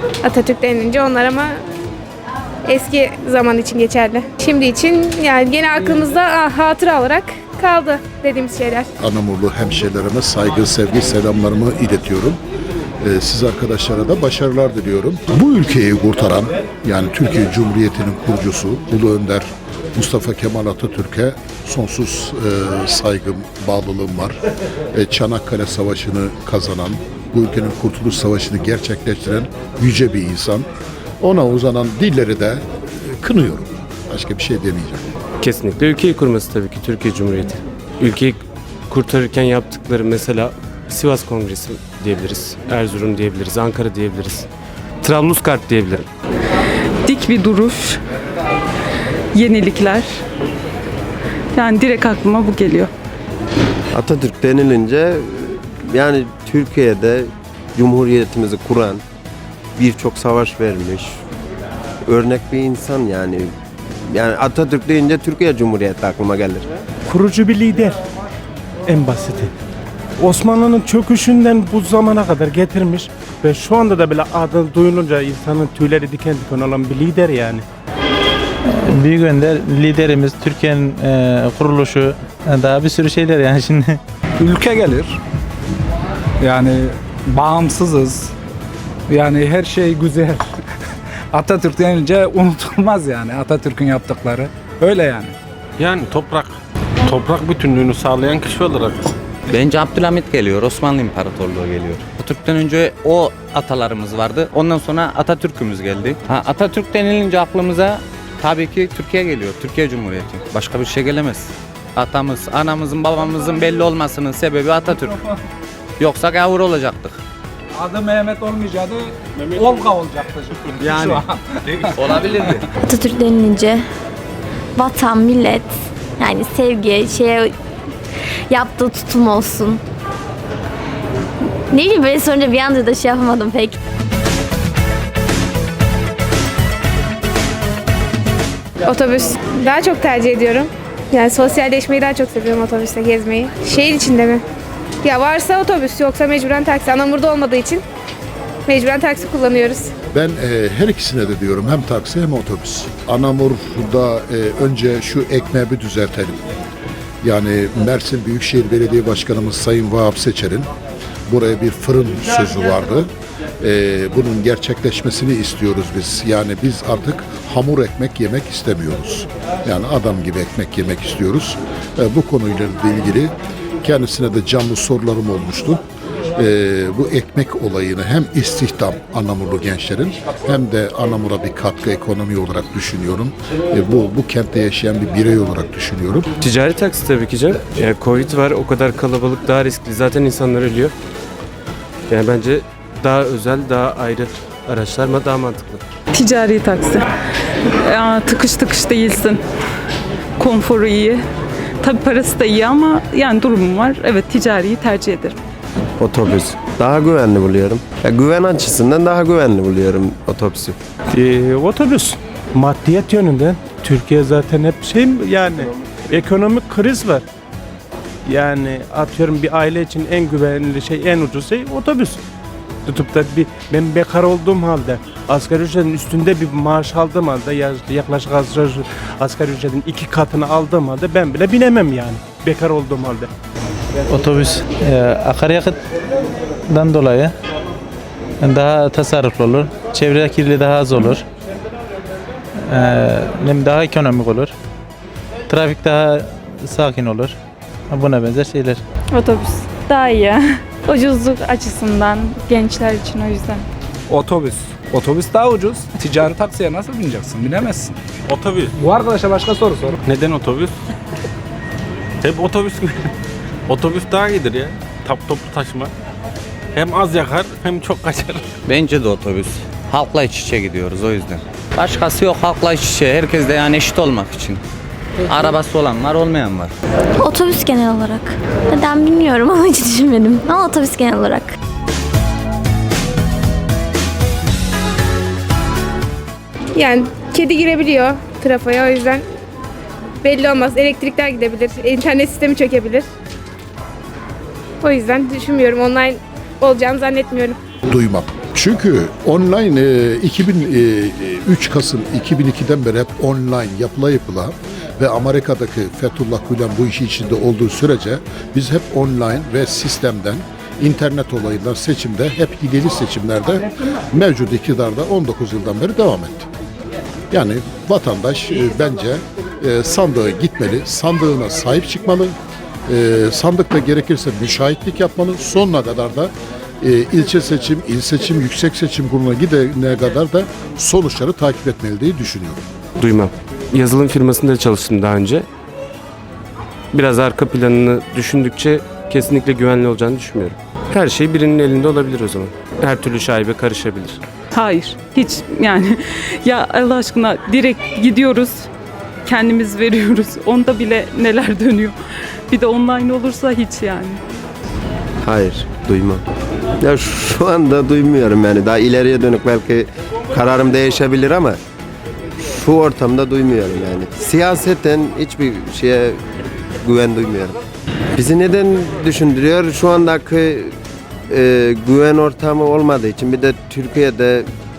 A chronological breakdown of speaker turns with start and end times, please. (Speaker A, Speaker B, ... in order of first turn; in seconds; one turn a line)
Speaker A: 0.2-1.5
Speaker A: 2.7-8.9
Speaker B: 9.0-12.4
Speaker B: 13.0-24.4
Speaker B: 24.9-30.7
Speaker B: 31.2-35.1
Speaker C: 35.4-44.5
Speaker C: 45.0-46.1
Speaker D: 47.0-48.0
Speaker D: 49.3-50.1
Speaker D: 51.5-52.9
Speaker E: 53.9-59.0
Speaker E: 59.8-61.1
Speaker E: 62.1-63.5
Speaker E: 64.1-66.7
Speaker F: 67.1-68.0
Speaker F: 68.9-69.5
Speaker F: 70.2-77.7
Speaker G: 78.9-84.0
Speaker H: 84.4-85.2
Speaker H: 86.4-88.3
Speaker H: 89.1-90.5
Speaker H: 91.3-95.4
Speaker I: 95.8-99.0
Speaker J: 99.5-115.2
Speaker J: 116.0-117.2
Speaker H: 117.8-122.7
Speaker J: 120.8-121.2
Speaker J: 122.0-122.6
Speaker K: 122.8-123.8
Speaker K: 124.8-127.5
Speaker K: 128.5-129.8
Speaker K: 131.7-133.8
Speaker A: 138.9-144.4
Speaker A: 145.0-147.8
Speaker A: 148.7-149.9
Speaker B: 150.1-156.4
Speaker B: 157.2-160.7
Speaker B: 161.3-163.1
Speaker B: 163.6-175.8
Speaker B: 176.3-186.3
Speaker C: 186.4-190.9
Speaker C: 192.1-195.8
Speaker D: 196.1-197.1
Speaker D: 197.8-199.5
Speaker D: 200.4-201.2
Speaker D: 201.8-205.4
Speaker E: 206.0-210.8
Speaker F: 211.1-217.2
Speaker F: 218.3-222.2
Speaker F: 222.9-233.3
Speaker G: 234.1-235.8
Speaker G: 236.7-237.3
Speaker G: 238.4-241.2
Speaker G: 242.7-244.5
Speaker G: 245.5-247.4
Speaker G: 247.9-248.8
Speaker D: 249.1-253.7
Speaker H: 254.1-258.0
Speaker I: 258.3-258.7
Speaker H: 258.8-260.0
Speaker I: 260.1-260.8
Speaker I: 262.2-263.1
Speaker I: 263.7-265.9
Speaker I: 266.8-268.5
Speaker J: 268.6-274.6
Speaker J: 275.3-276.7
Speaker K: 277.2-281.6
Speaker A: 286.8-289.2
Speaker A: 290.2-293.1
Speaker A: 294.8-297.6
Speaker B: 297.9-316.5
Speaker B: 317.3-322.4
Speaker B: 322.9-332.6
Speaker C: 333.0-335.5
Speaker C: 336.9-344.2
Speaker D: 344.5-348.7
Speaker D: 349.2-352.0
Speaker D: 352.5-354.2
Speaker E: 355.2-356.3
Speaker E: 356.8-361.6
Speaker E: 362.4-366.2
Speaker E: 366.8-367.6
Speaker E: 368.2-370.7
Speaker E: 371.3-374.5